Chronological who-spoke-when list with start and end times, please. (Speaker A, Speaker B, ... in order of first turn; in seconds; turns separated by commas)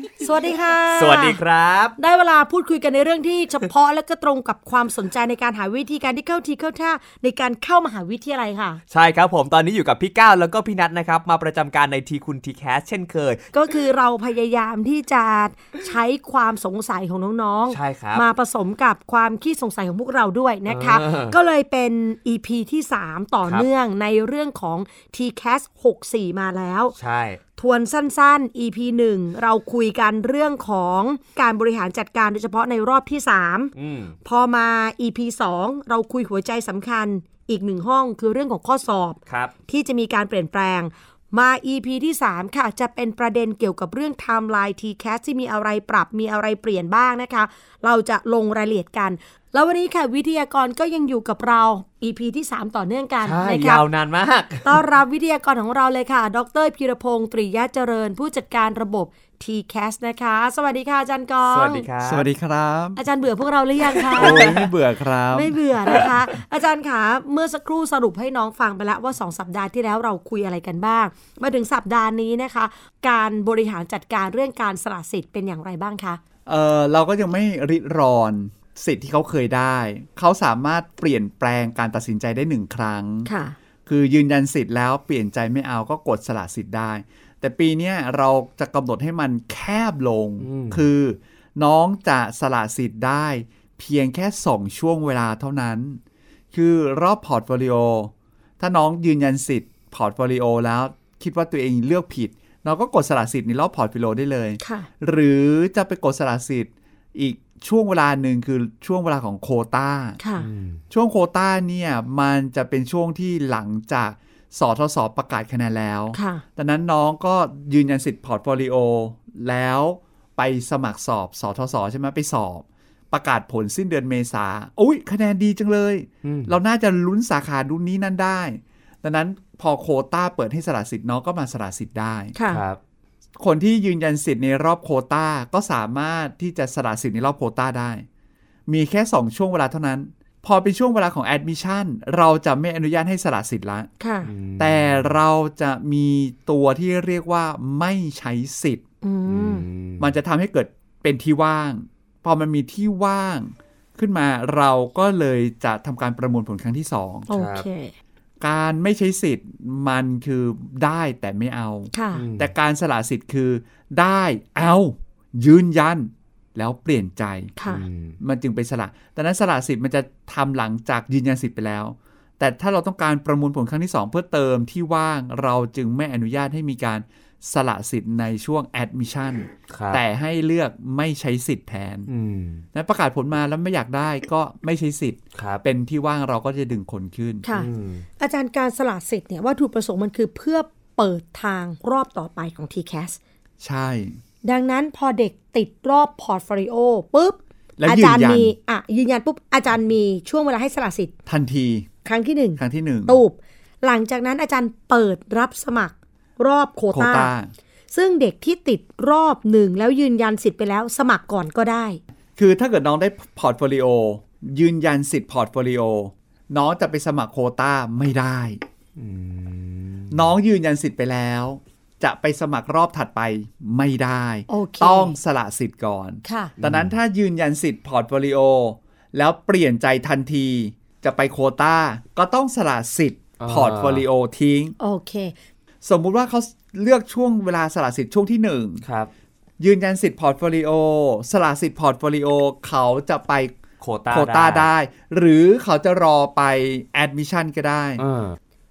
Speaker A: 0.2-1.4, Speaker B: 0.9-1.9, Speaker A: 2.0-8.8, Speaker B: 8.9-13.5, Speaker A: 13.5-26.9, Speaker B: 17.7-18.2, Speaker B: 20.7-21.4, Speaker B: 26.9-27.4, Speaker A: 27.6-33.7, Speaker B: 33.8-34.1, Speaker A: 34.2-53.8, Speaker B: 39.3-39.5, Speaker B: 53.2-54.8, Speaker A: 54.6-61.9, Speaker B: 61.5-62.3, Speaker C: 62.0-63.0, Speaker A: 63.0-64.5, Speaker B: 63.9-64.7, Speaker C: 64.1-66.1, Speaker A: 65.3-76.2, Speaker C: 76.5-83.3, Speaker A: 83.2-83.5, Speaker C: 83.8-96.0, Speaker B: 90.4-90.8, Speaker C: 96.5-110.2, Speaker A: 104.6-104.9, Speaker A: 110.2-110.5, Speaker B: 110.4-110.8, Speaker C: 110.9-132.3, Speaker A: 116.1-116.4, Speaker B: 126.2-126.5, Speaker A: 132.3-132.6, Speaker B: 132.5-132.8, Speaker C: 133.4-138.0, Speaker C: 138.7-143.9, Speaker A: 144.0-144.3, Speaker B: 144.2-145.1, Speaker C: 144.6-148.8, Speaker A: 149.0-149.7, Speaker B: 149.3-150.1, Speaker C: 150.0-157.3, Speaker B: 157.3-157.6, Speaker A: 157.3-157.9, Speaker C: 158.4-167.5, Speaker A: 161.9-162.2, Speaker B: 162.1-162.5, Speaker A: 167.6-167.8, Speaker B: 167.7-168.2, Speaker C: 168.2-182.1, Speaker B: 179.7-180.0, Speaker B: 182.1-182.6, Speaker C: 182.7-187.4, Speaker B: 185.3-185.6, Speaker A: 187.4-193.2, Speaker B: 187.5-188.0, Speaker C: 193.6-194.2, Speaker A: 194.4-201.1, Speaker C: 197.8-198.5, Speaker C: 201.3-201.9, Speaker A: 202.0-207.3, Speaker C: 202.6-203.2, Speaker C: 206.9-207.5, Speaker A: 207.9-212.0, Speaker C: 212.4-218.6, Speaker B: 219.0-220.2, Speaker C: 220.1-234.7, Speaker A: 224.5-225.1, Speaker A: 226.2-226.5, Speaker B: 226.6-226.9, Speaker B: 233.4-234.0, Speaker A: 234.8-235.3, Speaker C: 235.8-238.8, Speaker B: 238.8-239.1, Speaker C: 239.6-243.6, Speaker B: 243.8-244.7, Speaker C: 244.1-248.0, Speaker B: 248.0-248.4